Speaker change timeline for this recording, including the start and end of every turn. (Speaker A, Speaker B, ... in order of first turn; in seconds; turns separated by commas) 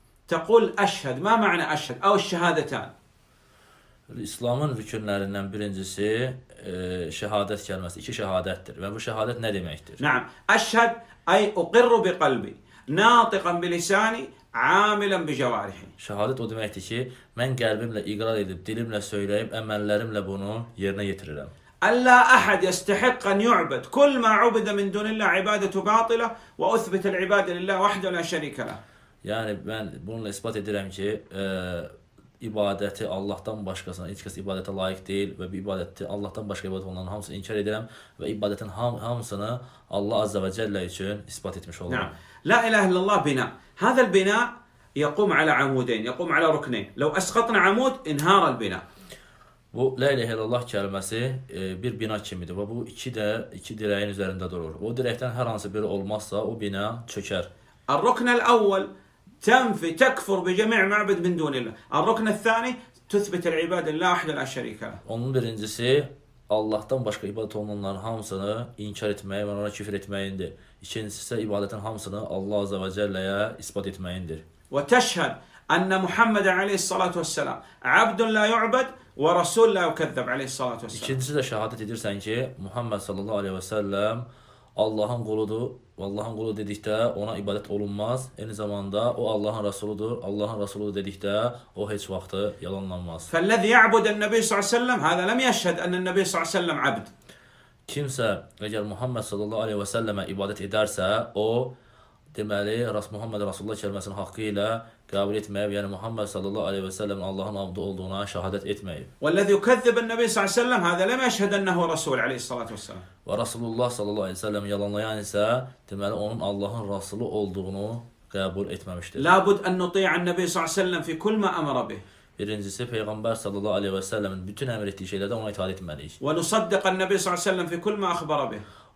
Speaker A: 0.3-2.9, Speaker B: 4.1-10.0, Speaker A: 10.0-15.9, Speaker B: 16.0-21.5, Speaker A: 21.8-28.8, Speaker B: 29.2-42.1, Speaker A: 41.9-48.8, Speaker B: 49.7-57.5, Speaker A: 57.9-58.9, Speaker A: 59.4-65.0, Speaker B: 65.0-74.4, Speaker A: 74.7-81.2, Speaker B: 80.9-84.2, Speaker B: 84.8-93.3, Speaker A: 93.3-97.1, Speaker B: 97.9-101.7, Speaker B: 102.3-109.1, Speaker A: 109.2-113.0, Speaker B: 113.2-119.2, Speaker A: 119.2-122.0, Speaker B: 122.4-126.2, Speaker A: 126.2-128.6